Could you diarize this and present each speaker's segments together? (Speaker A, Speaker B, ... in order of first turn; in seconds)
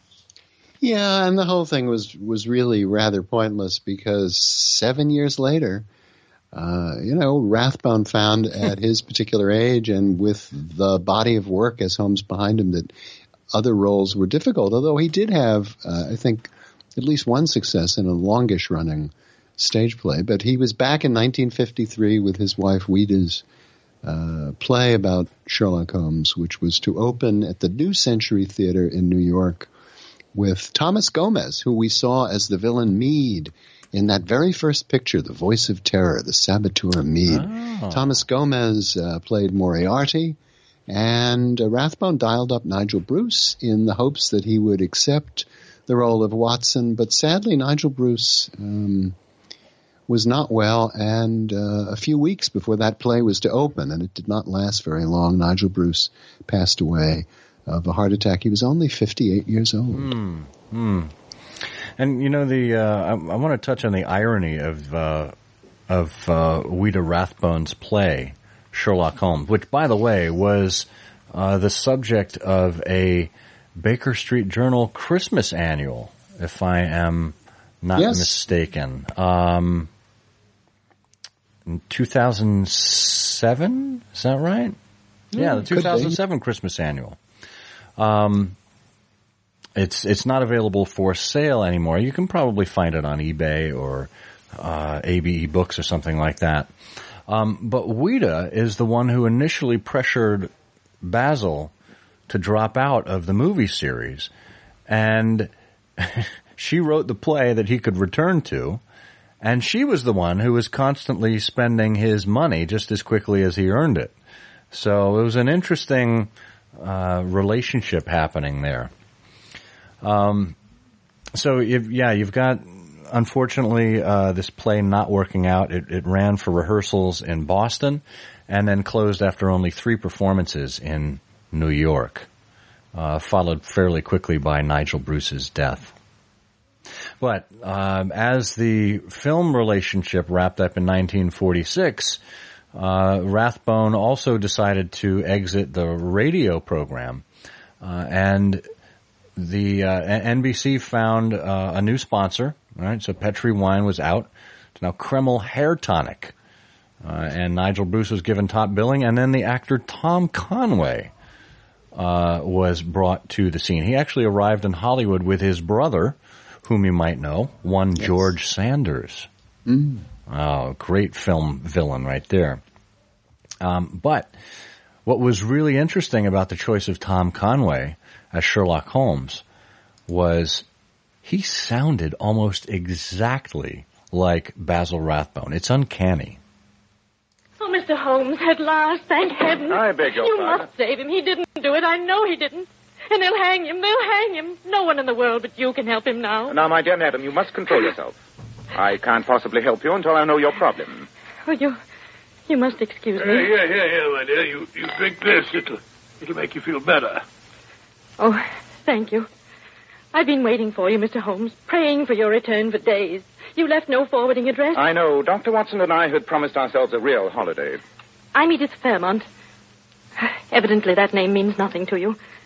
Speaker A: 0.8-5.9, 6.5-12.9, 13.5-23.4, 24.0-29.7, 30.3-49.2, 50.1-60.1, 78.0-78.4, 85.3-86.2, 169.7-170.1
Speaker B: 37.3-38.1, 59.9-61.1, 62.0-65.3, 65.9-79.9, 81.7-84.8, 85.3-87.2, 88.0-88.6, 89.8-96.7, 97.3-100.5, 101.0-101.7, 102.3-104.3, 104.9-108.8, 109.4-114.1, 114.7-118.9, 120.0-120.6, 121.3-132.3, 132.9-135.9, 137.2-142.2, 142.8-147.2, 147.8-148.7, 149.4-156.3, 157.0-161.1, 161.9-169.3, 170.3-172.6, 173.6-174.3, 175.1-179.4, 180.1-180.7, 181.2-186.4
Speaker C: 187.6-196.6, 201.5-201.8, 202.5-203.5, 208.2-209.3, 210.1-214.9, 218.3-219.3, 220.2-222.2
Speaker D: 189.7-190.7, 196.5-198.2, 198.8-201.1, 214.8-217.8
Speaker E: 203.2-207.2